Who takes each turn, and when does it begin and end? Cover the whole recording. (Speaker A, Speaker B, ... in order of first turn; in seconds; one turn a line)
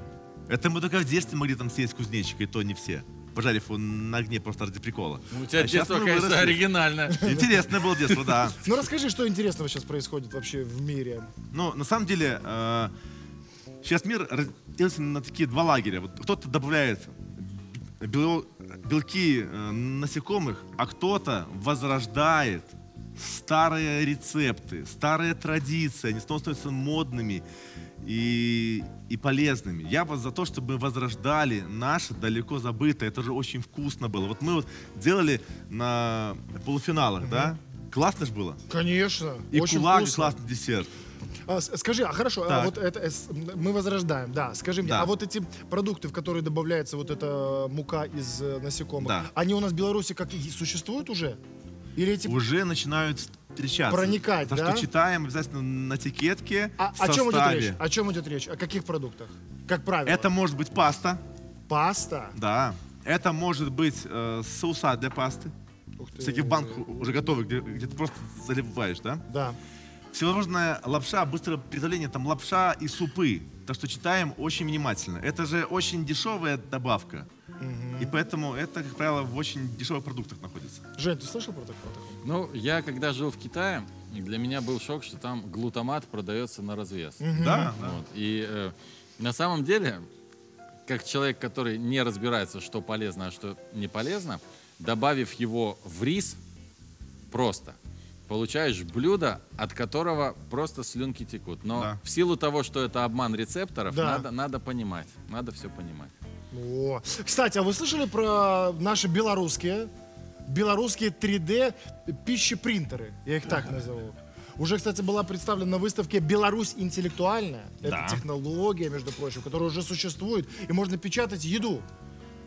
Speaker A: 0.5-8.6
Speaker B: 5.3-7.3
Speaker C: 8.6-11.3
Speaker A: 11.5-12.9
Speaker A: 13.8-27.4
Speaker A: 28.0-38.6
Speaker C: 37.2-37.5
Speaker C: 38.7-40.4
Speaker A: 39.5-40.9
Speaker C: 41.5-51.4
Speaker A: 42.5-42.7
Speaker A: 44.8-45.1
Speaker A: 49.0-49.3
Speaker C: 52.0-52.4
Speaker A: 52.2-57.8
Speaker C: 53.9-54.9
Speaker C: 56.8-60.3
Speaker A: 60.0-61.2
Speaker C: 61.7-62.4
Speaker A: 62.3-65.5
Speaker C: 66.0-66.8
Speaker A: 66.2-69.2
Speaker C: 69.3-69.6
Speaker A: 70.1-77.3
Speaker C: 77.6-78.2
Speaker A: 78.0-80.8
Speaker C: 81.0-82.2
Speaker B: 82.2-90.0
Speaker C: 87.2-87.8
Speaker A: 87.3-88.0
Speaker B: 90.8-96.4
Speaker B: 97.3-97.8
Speaker B: 98.3-106.1
Speaker A: 101.7-102.0
Speaker C: 103.9-104.2
Speaker C: 106.5-109.9
Speaker C: 110.5-121.8
Speaker A: 117.8-118.2